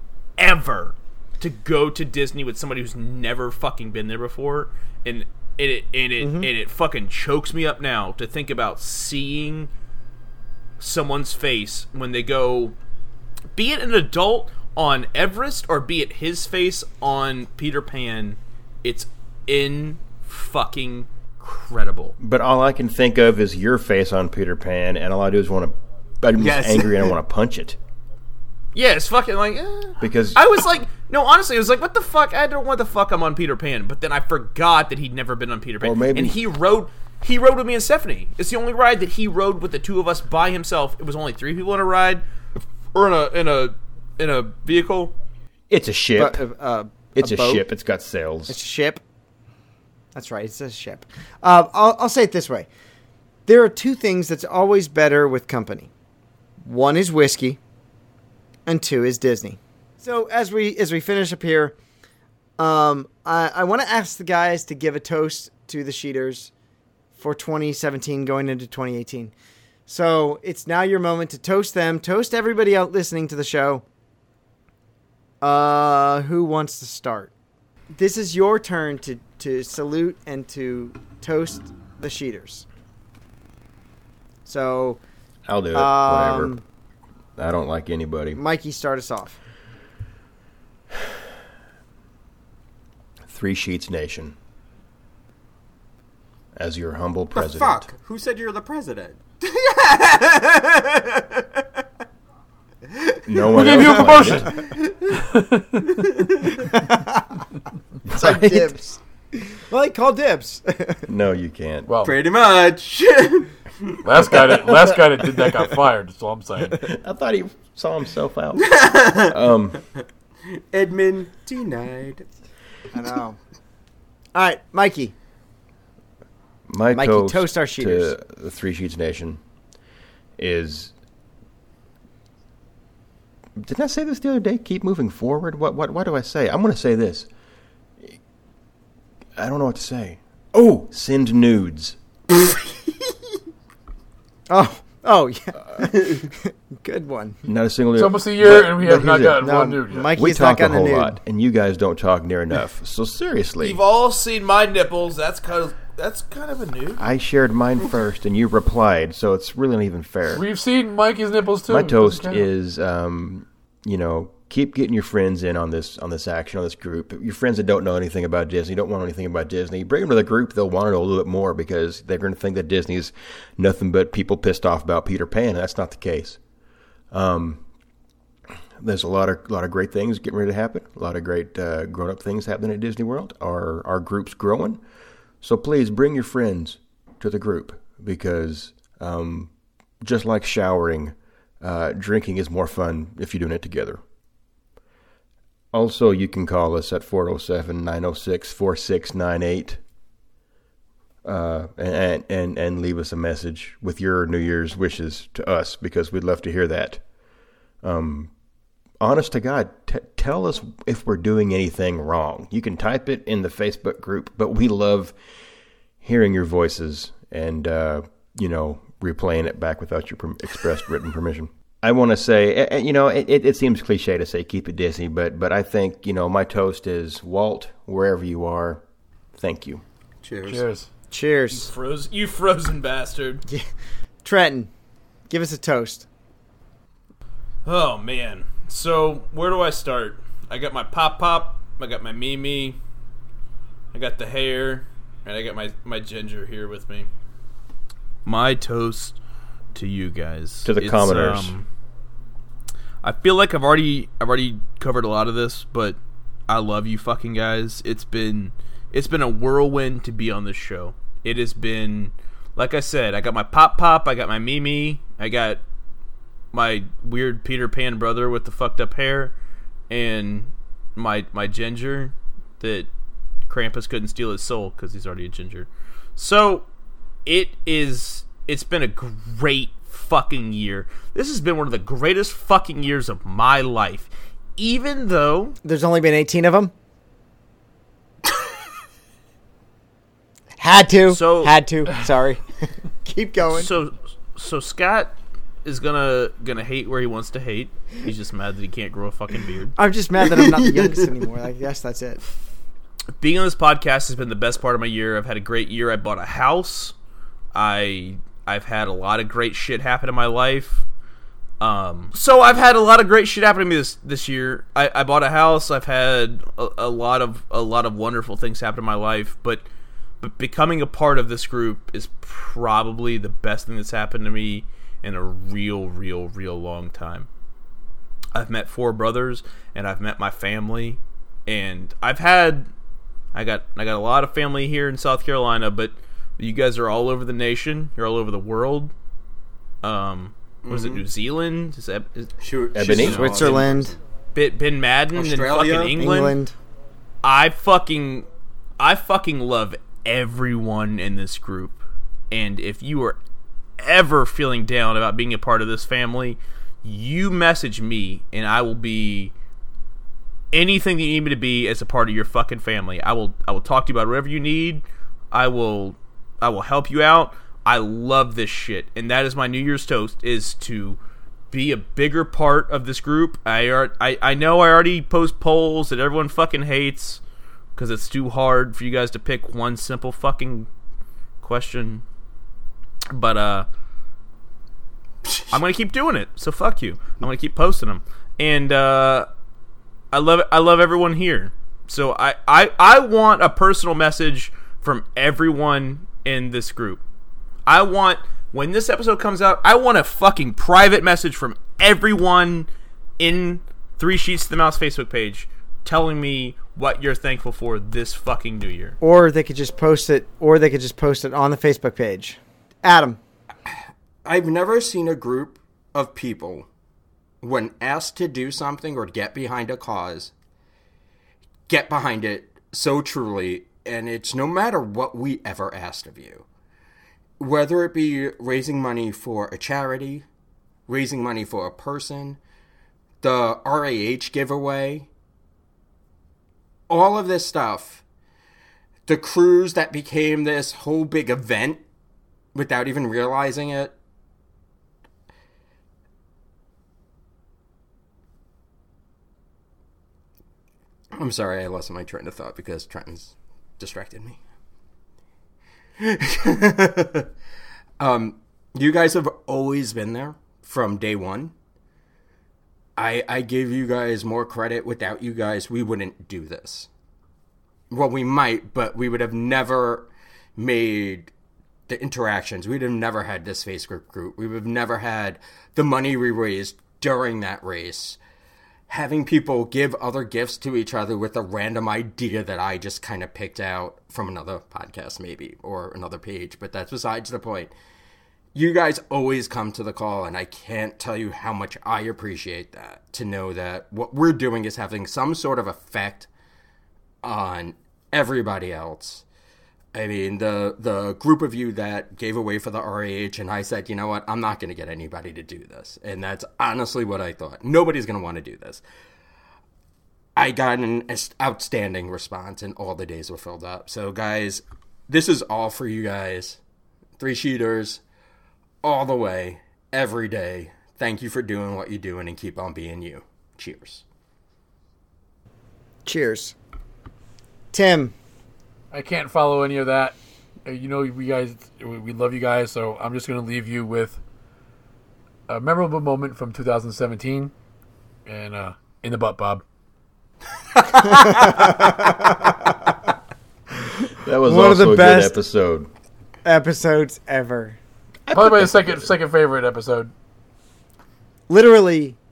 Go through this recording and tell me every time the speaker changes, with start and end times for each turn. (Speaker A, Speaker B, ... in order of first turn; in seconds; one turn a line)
Speaker A: 0.4-9.7
Speaker B: 6.2-6.5
Speaker A: 10.8-12.8
Speaker A: 13.6-22.2
Speaker C: 22.2-27.8
Speaker D: 26.4-27.1
Speaker A: 28.7-42.2
Speaker C: 30.0-30.4
Speaker C: 35.8-36.4
Speaker A: 42.9-45.1
Speaker C: 45.7-46.4
Speaker B: 46.2-47.6
Speaker C: 47.1-48.5
Speaker B: 48.5-49.0
Speaker B: 50.1-52.7
Speaker B: 53.5-55.9
Speaker B: 56.6-57.6
Speaker B: 58.7-61.8
Speaker B: 62.6-66.5
Speaker B: 67.2-69.3
Speaker B: 69.9-73.8
Speaker B: 75.4-77.3
Speaker B: 77.9-82.7
Speaker B: 84.5-85.0
Speaker C: 85.5-86.5
Speaker B: 85.7-86.6
Speaker C: 87.4-88.4
Speaker B: 88.4-89.4
Speaker C: 93.3-94.3
Speaker C: 96.5-97.9
Speaker D: 97.3-101.6
Speaker D: 102.9-103.4
Speaker C: 103.3-104.5
Speaker E: 103.5-106.1
Speaker D: 106.1-106.6
Speaker B: 106.6-107.4
Speaker B: 108.1-111.0
Speaker C: 108.1-108.8
Speaker C: 111.1-111.9
Speaker E: 111.9-112.2
Speaker D: 112.0-114.6
Speaker E: 114.0-116.9
Speaker C: 116.8-119.8
Speaker D: 118.6-119.4
Speaker D: 120.5-122.2
Speaker B: 122.9-123.4
Speaker B: 124.3-125.1
Speaker C: 126.7-129.4
Speaker B: 126.9-128.1
Speaker C: 130.4-130.9
Speaker C: 133.6-137.3
Speaker C: 139.4-142.0
Speaker B: 144.5-147.4
Speaker C: 147.4-149.4
Speaker E: 148.0-150.1
Speaker B: 149.4-151.2
Speaker C: 150.1-153.8
Speaker A: 153.6-157.1
Speaker C: 157.0-160.4
Speaker E: 160.3-162.5
Speaker C: 161.7-176.4
Speaker C: 177.1-177.6
Speaker C: 178.8-184.8
Speaker C: 185.4-189.5
Speaker C: 190.0-194.0
Speaker C: 195.7-199.8
Speaker C: 201.2-207.0
Speaker C: 207.8-208.3
Speaker C: 209.0-215.1
Speaker C: 216.0-228.8
Speaker C: 229.4-229.8
Speaker D: 230.2-230.6
Speaker E: 230.5-230.9
Speaker B: 231.1-231.7
Speaker A: 231.5-233.4
Speaker B: 234.2-234.7
Speaker B: 235.3-236.1
Speaker A: 237.7-242.8
Speaker A: 243.9-247.1
Speaker A: 248.2-249.2
Speaker A: 249.8-251.7
Speaker C: 250.7-251.6
Speaker A: 253.0-265.6
Speaker A: 266.5-269.3
Speaker A: 269.9-272.9
Speaker A: 273.5-276.7
Speaker A: 277.3-285.6
Speaker B: 285.6-286.7
Speaker B: 290.6-293.7
Speaker A: 291.1-291.5
Speaker A: 293.5-299.8
Speaker B: 299.8-302.2
Speaker D: 300.2-301.1
Speaker A: 303.2-306.9
Speaker A: 307.5-310.9
Speaker A: 311.6-319.6
Speaker A: 320.2-327.3
Speaker A: 328.3-332.7
Speaker A: 333.3-338.9
Speaker A: 339.8-342.3
Speaker D: 340.6-341.0
Speaker D: 342.4-343.9
Speaker C: 342.7-343.5
Speaker A: 343.0-343.5
Speaker B: 343.0-343.9
Speaker A: 344.4-346.4
Speaker D: 345.1-346.0
Speaker B: 346.0-346.5
Speaker A: 347.2-348.3
Speaker A: 348.8-351.8
Speaker A: 352.3-353.2
Speaker A: 353.8-359.3
Speaker A: 360.5-371.0
Speaker A: 371.5-377.2
Speaker A: 377.8-380.7
Speaker A: 381.4-382.0
Speaker A: 383.1-383.7
Speaker A: 385.5-389.3
Speaker A: 390.1-397.0
Speaker A: 397.7-402.7
Speaker A: 403.2-409.0
Speaker B: 409.0-413.2
Speaker D: 414.2-416.7
Speaker D: 417.4-420.3
Speaker D: 421.7-426.5
Speaker D: 427.4-430.3
Speaker D: 430.9-432.4
Speaker D: 433.2-435.1
Speaker D: 436.9-438.0
Speaker D: 439.1-441.8
Speaker D: 442.5-443.9
Speaker D: 451.1-454.4
Speaker D: 456.0-457.3
Speaker D: 458.0-461.5
Speaker D: 463.0-466.9
Speaker D: 467.9-471.3
Speaker D: 471.9-478.2
Speaker D: 478.9-487.7
Speaker D: 488.5-496.3
Speaker D: 497.2-499.2
Speaker D: 499.9-508.8
Speaker D: 510.4-516.6
Speaker D: 517.2-518.0
Speaker D: 518.8-524.0
Speaker B: 526.0-526.6
Speaker B: 527.7-528.1
Speaker E: 528.9-534.2
Speaker E: 535.5-537.5
Speaker E: 538.3-539.6
Speaker D: 540.7-542.1
Speaker C: 544.2-545.9
Speaker B: 544.4-545.4
Speaker B: 546.5-547.8
Speaker C: 548.3-549.1
Speaker E: 548.3-550.1
Speaker B: 551.5-552.2